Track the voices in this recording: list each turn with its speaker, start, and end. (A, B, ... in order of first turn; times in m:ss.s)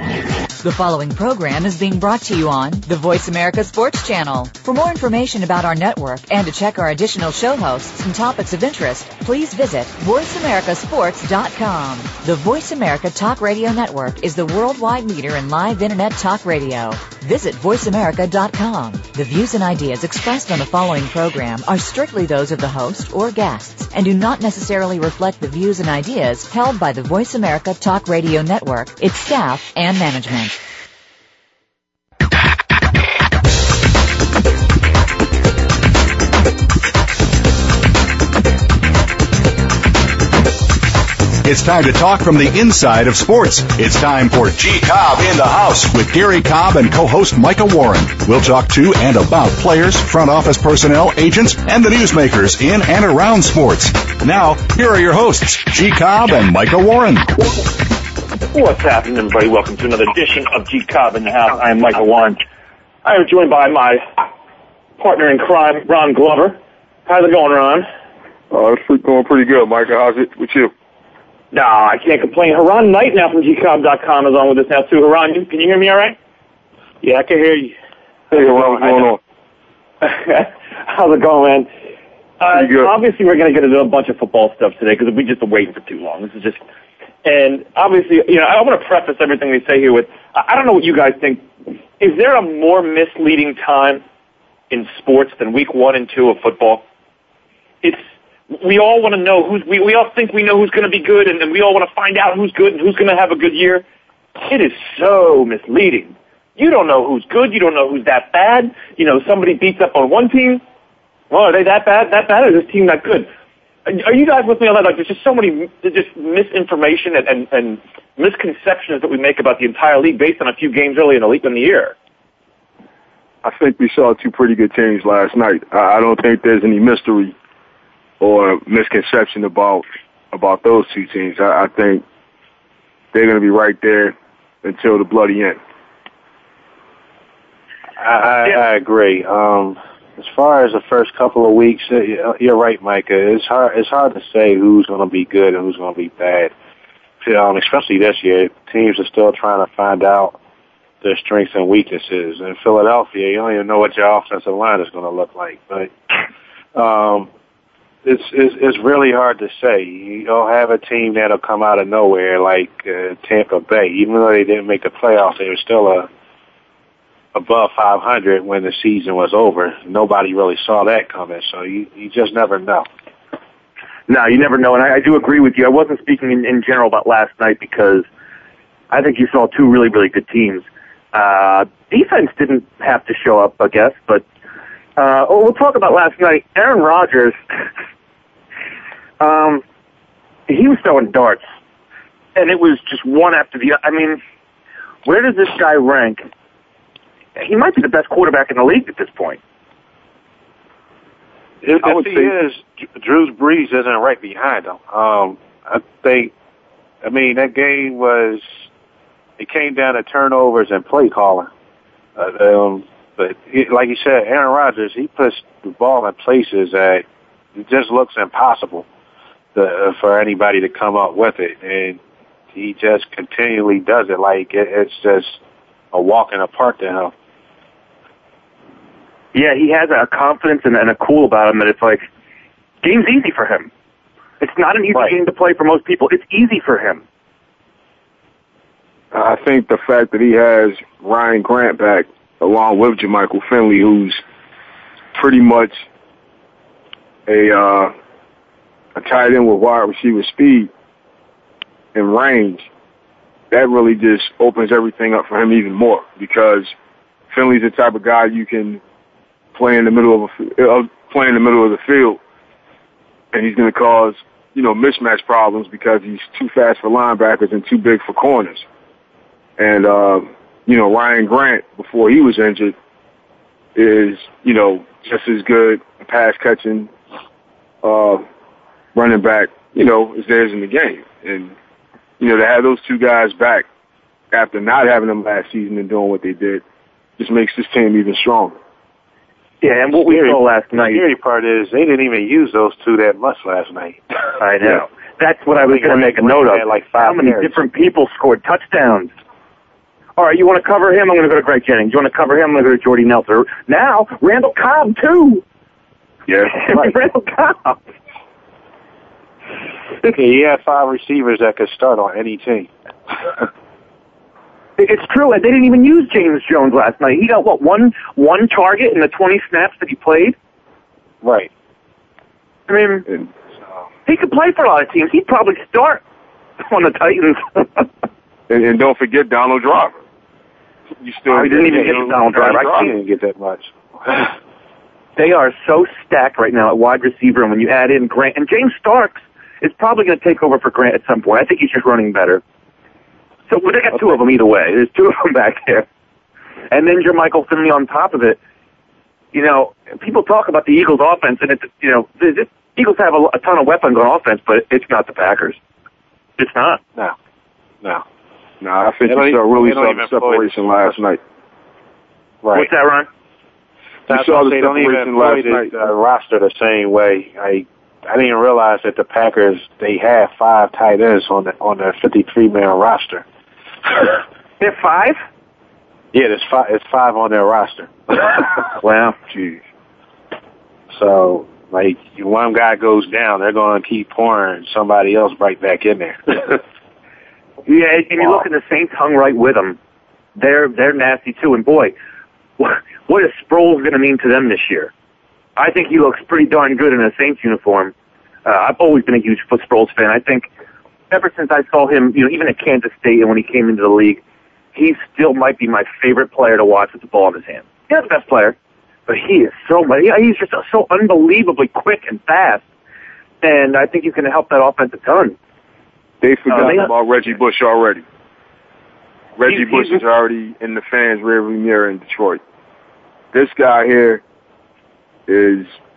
0:00.6-0:30.6 A
0:41.4-0:57.3 B
0:58.5-1:02.4 C
1:03.0-1:04.3 C
1:05.0-1:07.9 C
1:08.5-1:10.7 D
1:11.5-1:16.2 C
1:17.0-1:17.7 C
1:18.3-1:19.2 D
1:20.0-1:21.7 C
1:22.4-1:26.6 C
1:22.5-1:22.9 D
1:27.2-1:34.0 C
1:34.7-1:36.8 C
1:37.8-1:43.8 C
1:44.4-1:50.6 C
1:51.3-1:53.3 C
1:53.9-2:02.0 C
2:03.4-2:07.4 D
2:08.2-2:12.0 D
2:13.1-2:15.6 D
2:18.0-2:26.5 E
2:27.2-2:30.4 E
2:31.0-2:35.9 E
2:36.8-2:37.3 E
2:38.0-2:46.1 E
2:47.3-2:52.9 E
2:54.1-2:58.1 C
2:58.9-3:04.2 C
3:05.0-3:07.4 C
3:09.2-3:09.6 C
3:10.5-3:11.4 C
3:12.4-3:14.2 C
3:15.0-3:16.3 C
3:17.4-3:19.4 C
3:21.6-3:26.3 E
3:21.8-3:22.3 D
3:27.0-3:28.7 E
3:29.4-3:31.5 E
3:32.2-3:37.0 E
3:37.6-3:38.9 E
3:39.6-3:42.0 E
3:42.5-3:45.4 E
3:45.9-3:47.1 E
3:49.3-3:52.0 C
3:52.8-3:53.7 C
3:54.4-3:57.0 C
3:59.1-4:04.2 D
4:05.1-4:05.9 D
4:07.3-4:07.9 D
4:09.0-4:10.7 D
4:11.9-4:12.7 D
4:13.5-4:16.7 D
4:17.3-4:18.8 D
4:19.5-4:22.2 D
4:23.3-4:28.6 D
4:29.6-4:32.8 D
4:33.8-4:36.9 D
4:37.8-4:38.2 D
4:38.9-4:41.5 D
4:42.2-4:43.7 D
4:44.3-4:46.6 D
4:47.2-4:48.6 D
4:49.6-4:51.1 C
4:50.0-4:54.0 E
4:54.4-4:59.1 C
4:55.6-4:57.6 E
5:00.2-5:05.4 C
5:06.3-5:06.9 D
5:06.5-5:07.8 C
5:10.0-5:12.7 E
5:14.8-5:20.4 C
5:21.2-5:21.5 E
5:22.7-5:23.0 C
5:24.1-5:26.0 C
5:26.6-5:27.9 C
5:28.5-5:30.0 D
5:31.0-5:32.9 D
5:31.3-5:32.9 C
5:31.6-5:34.3 E
5:35.2-5:42.4 C
5:43.5-5:45.9 C
5:46.7-5:48.4 C
5:49.3-5:55.6 C
5:56.4-5:56.8 C
5:58.6-6:01.2 D
5:59.1-6:01.0 E
6:02.4-6:02.7 E
6:02.5-6:03.1 C
6:04.1-6:05.8 D
6:04.1-6:13.2 E
6:14.6-6:15.2 C
6:16.1-6:18.5 E
6:18.8-6:19.2 C
6:20.9-6:26.6 E
6:27.7-6:29.8 C
6:30.4-6:32.0 C
6:32.6-6:34.9 C
6:35.6-6:37.9 C
6:38.4-6:40.5 C
6:41.1-6:44.2 C
6:44.8-6:48.6 C
6:49.1-6:52.6 C
6:53.4-6:55.4 C
6:56.2-6:58.0 D
6:56.5-6:56.9 C
6:59.4-7:02.4 D
6:59.5-7:00.0 C
7:03.3-7:04.2 D
7:05.3-7:05.8 D